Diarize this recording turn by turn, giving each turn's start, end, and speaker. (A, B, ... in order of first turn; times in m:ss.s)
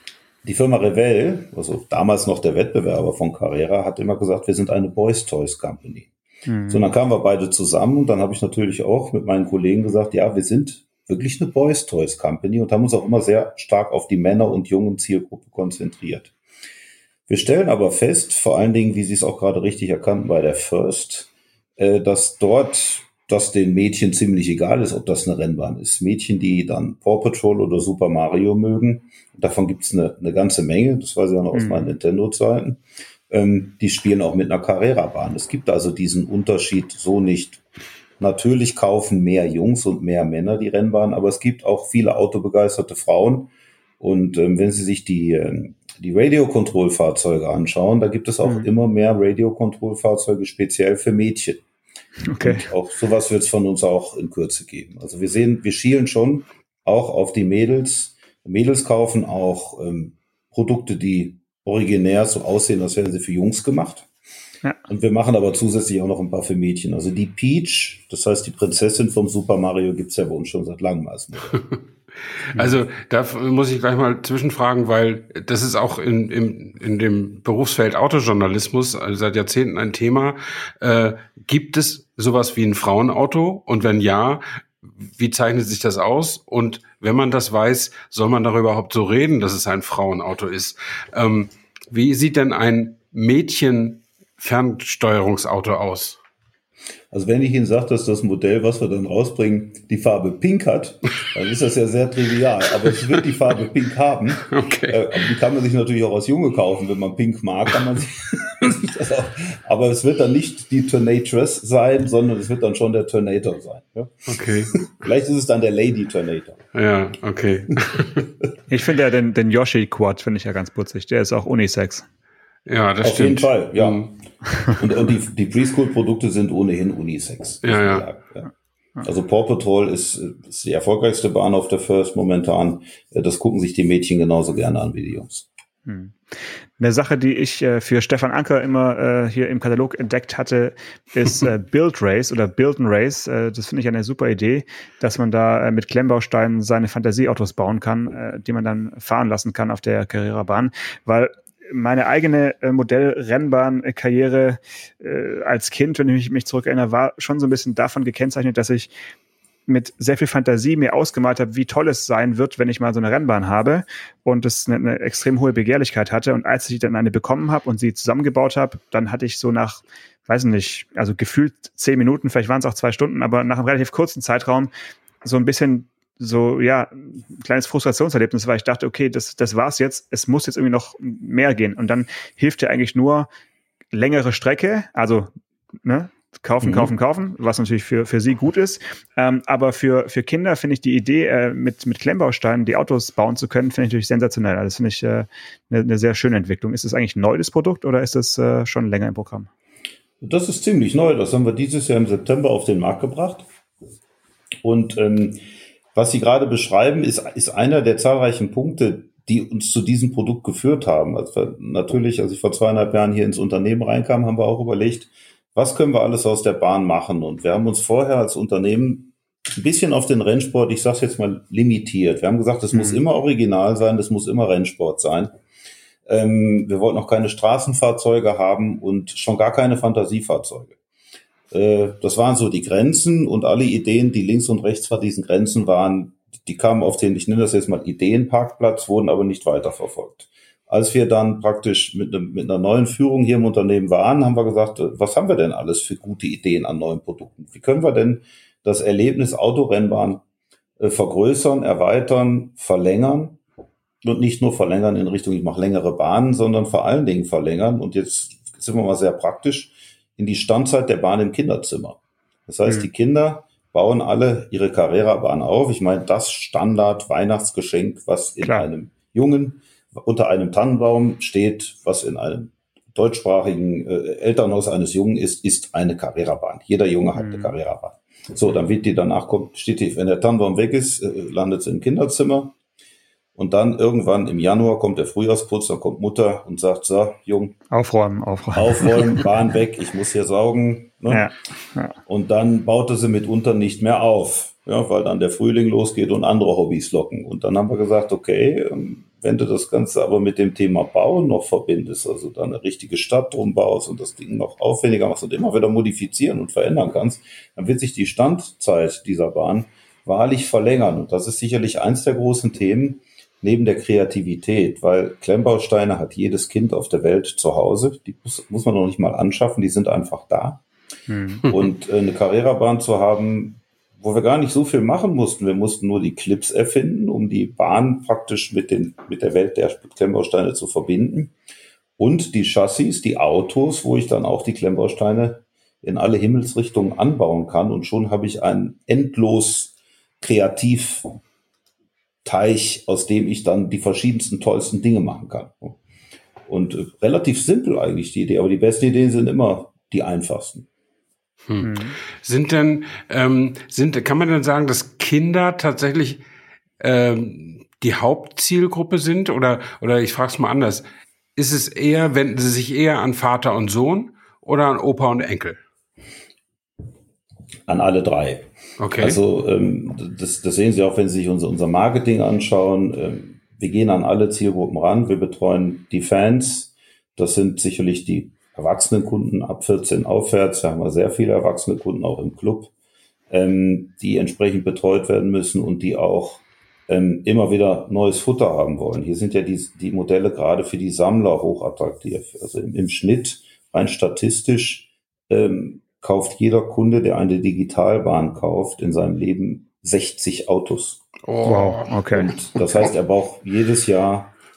0:00.4-0:06.1 A
0:06.5-0:06.8 B
0:06.7-0:16.3 A
0:17.3-0:37.6 A
0:31.5-0:31.9 B
0:38.2-0:51.6 A
0:52.3-0:52.7 B
0:52.4-1:04.1 A
1:04.9-1:11.6 A
1:12.5-1:24.4 C
1:25.0-1:36.2 C
1:37.1-1:56.6 A
1:44.4-1:45.1 C
1:54.3-1:54.8 C
1:56.7-1:58.3 C
1:58.7-2:02.0 B
2:02.6-2:04.1 C
2:03.0-2:04.1 A
2:04.8-2:08.5 A
2:07.6-2:08.0 C
2:09.0-2:15.5 A
2:15.9-2:16.2 B
2:16.8-2:38.9 B
2:39.7-2:54.7 B
2:55.2-3:03.3 B
3:03.9-3:05.3 B
3:05.8-3:19.5 B
3:06.6-3:06.9 A
3:20.2-3:23.5 A
3:24.6-3:25.4 A
3:25.9-3:45.3 A
3:46.0-3:50.8 A
3:51.5-4:10.2 A
4:10.8-4:13.4 A
4:14.0-4:42.5 A
4:28.4-4:28.7 B
4:37.2-4:37.5 B
4:43.4-4:47.6 A
4:47.7-4:49.0 B
4:48.5-4:51.3 A
4:51.1-4:52.0 B
4:52.0-5:20.6 A
5:21.1-5:21.4 B
5:21.4-5:31.3 A
5:32.0-5:41.1 A
5:42.2-5:45.8 A
5:46.4-5:50.7 A
5:51.5-5:56.2 C
5:51.6-5:52.0 B
5:56.8-6:00.8 C
6:01.4-6:05.6 C
6:07.7-6:22.7 A
6:08.8-6:09.2 C
6:23.3-6:41.0 A
6:41.2-6:41.9 C
6:41.4-6:42.3 B
6:42.1-6:44.3 A